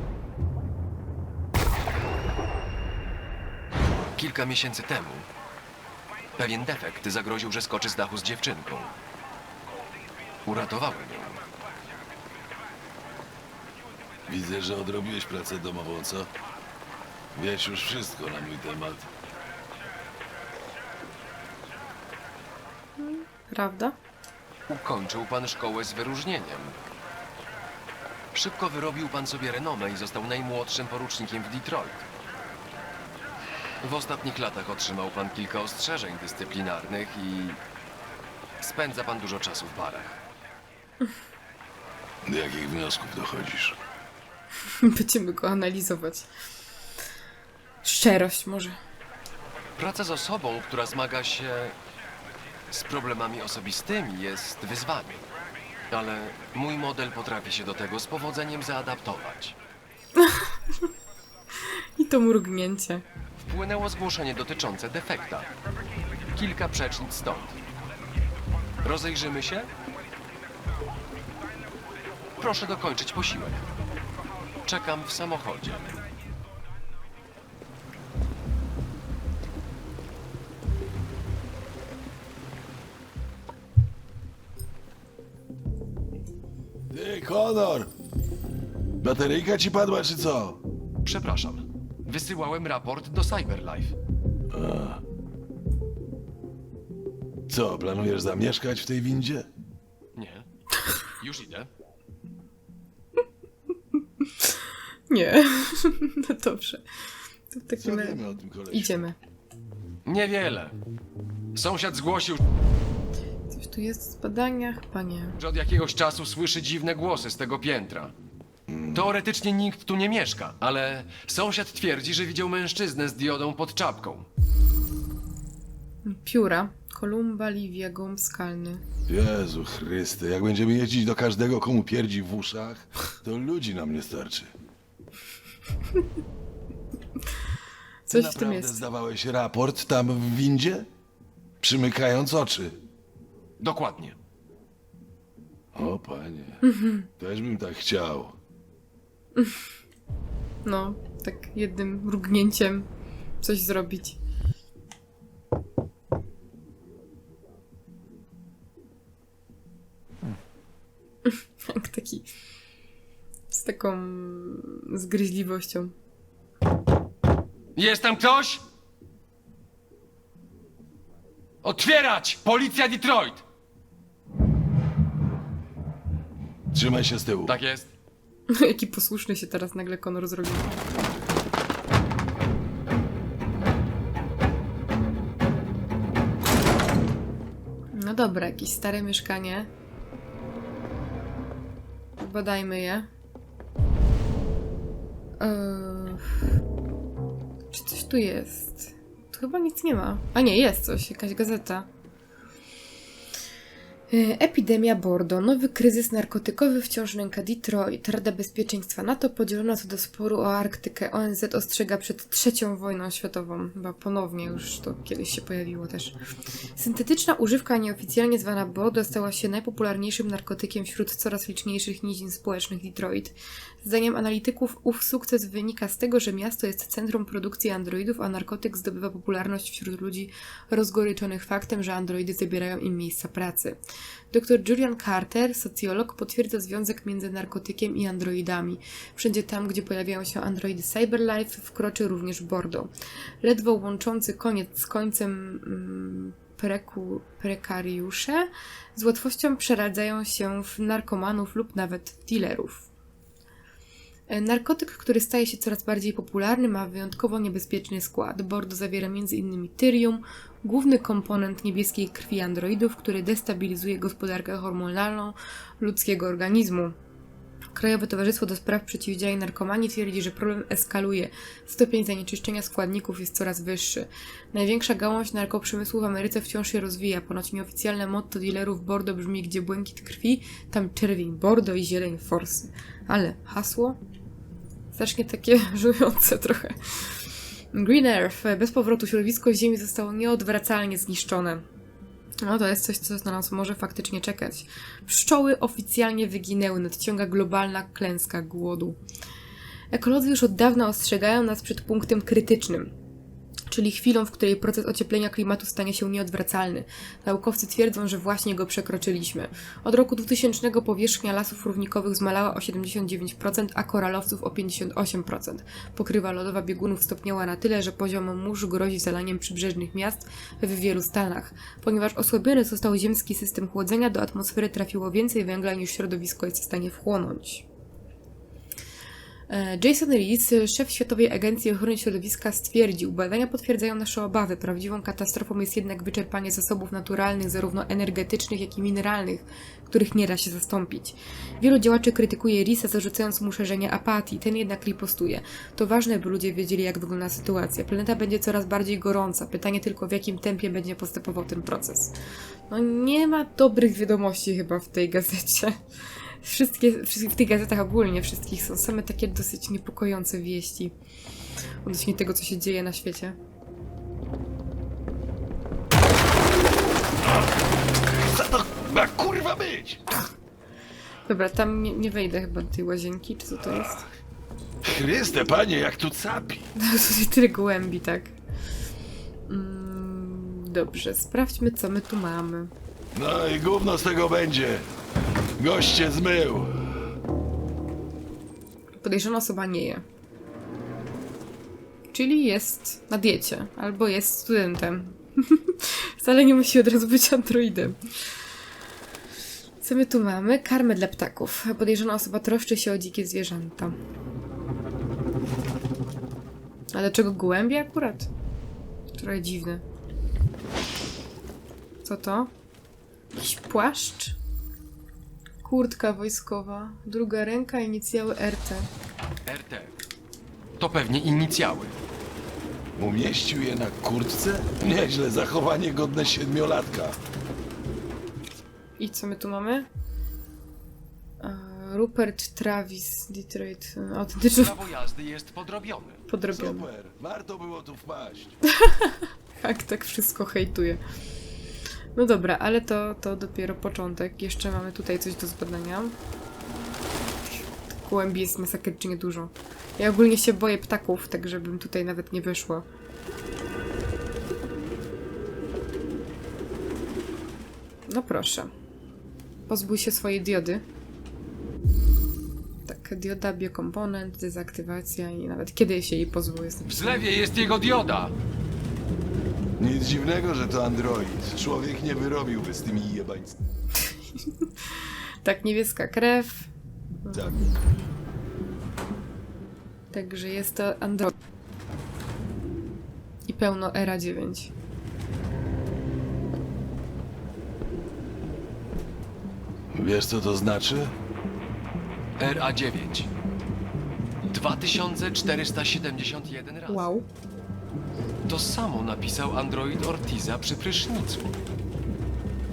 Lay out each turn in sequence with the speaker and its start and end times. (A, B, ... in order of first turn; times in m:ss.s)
0:04.2-0:05.3 A
0:06.4-0:08.9 A
0:10.4-0:11.4 A
0:14.3-0:16.3 B
0:17.3-0:19.1 B
0:23.0-0:24.0 C
0:24.7-0:26.8 A
0:28.3-0:32.0 A
0:33.8-0:37.6 A
0:38.6-0:40.2 A
0:42.2-0:43.8 B
0:44.7-0:46.3 C
0:47.8-0:48.8 C
0:49.8-0:51.8 A
0:52.7-0:55.2 A
0:55.9-0:59.6 A
1:00.2-1:00.6 C
1:01.6-1:03.0 C
1:03.4-1:05.5 A
1:06.4-1:07.6 A
1:08.8-1:09.7 A
1:12.4-1:13.7 A
1:14.7-1:16.0 A
1:26.9-1:27.9 B
1:29.0-1:30.6 B
1:31.0-1:34.0 A
1:34.5-1:35.0 B
1:37.5-1:39.5 B
1:40.2-1:40.5 A
1:41.2-1:41.7 A
1:45.1-1:46.8 C
1:47.5-1:48.2 C
1:47.8-1:49.0 B
1:48.7-1:49.2 C
1:50.1-1:50.8 A
1:51.5-1:52.4 A
1:53.5-1:55.4 C
1:55.4-1:58.1 A
1:58.7-1:59.1 B
1:58.9-2:04.3 A
2:06.0-2:08.8 C
2:09.1-2:14.5 B
2:18.1-2:18.8 C
2:18.1-2:20.9 B
2:21.6-2:22.8 B
2:23.6-2:24.2 A
2:25.7-2:26.6 B
2:26.6-2:27.1 C
2:27.2-2:28.4 B
2:30.6-2:32.9 C
2:33.4-2:34.2 C
2:41.2-2:42.3 C
2:43.5-2:45.9 C
2:47.8-2:48.6 A
2:51.6-2:53.4 A
2:56.7-2:57.6 B
2:57.5-2:57.9 A
2:58.5-3:00.9 C
3:07.9-3:09.7 C
3:12.2-3:13.1 C
3:15.4-3:16.4 C
3:17.7-3:21.9 C
3:24.1-3:36.2 C
3:36.8-3:53.8 C
3:54.3-4:12.9 C
4:14.3-4:26.9 C
4:27.8-4:44.0 C
4:44.9-4:51.6 C
4:52.4-4:59.0 C
4:59.9-5:02.9 C
5:03.7-5:27.7 C
5:29.5-5:52.1 C
5:52.7-6:01.0 C
6:01.8-6:03.4 C
6:08.1-6:10.2 B
6:11.3-6:14.0 C
6:13.7-6:14.1 B
6:14.8-6:16.7 B
6:16.8-6:18.3 C
6:19.5-6:22.7 C
6:23.1-6:24.9 B
6:25.6-6:26.9 B
6:29.0-6:30.0 C
6:32.1-6:38.4 C
6:39.8-6:44.0 C
6:46.9-6:48.3 C
6:49.1-6:49.8 C
6:52.0-6:52.5 C
6:53.3-6:54.4 C
6:55.6-6:58.9 C
6:59.5-7:00.0 A
7:00.8-7:02.0 A
7:03.0-7:07.2 B
7:09.0-7:09.9 C
7:11.4-7:14.8 C
7:14.5-7:16.2 A
7:16.3-7:16.9 C
7:16.5-7:18.6 B
7:18.7-7:21.0 C
7:22.2-7:26.2 C
7:27.5-7:32.8 C
7:38.1-7:38.7 C
7:39.7-7:40.8 C
7:42.9-7:47.2 C
7:46.9-7:48.4 A
7:49.8-7:53.6 B
7:54.4-7:56.7 C
7:57.3-7:57.7 B
8:00.1-8:01.4 C
8:03.5-8:04.7 C
8:09.9-8:11.2 B
8:12.4-8:13.3 A
8:14.5-8:17.1 A
8:16.9-8:17.3 C
8:18.5-8:21.5 A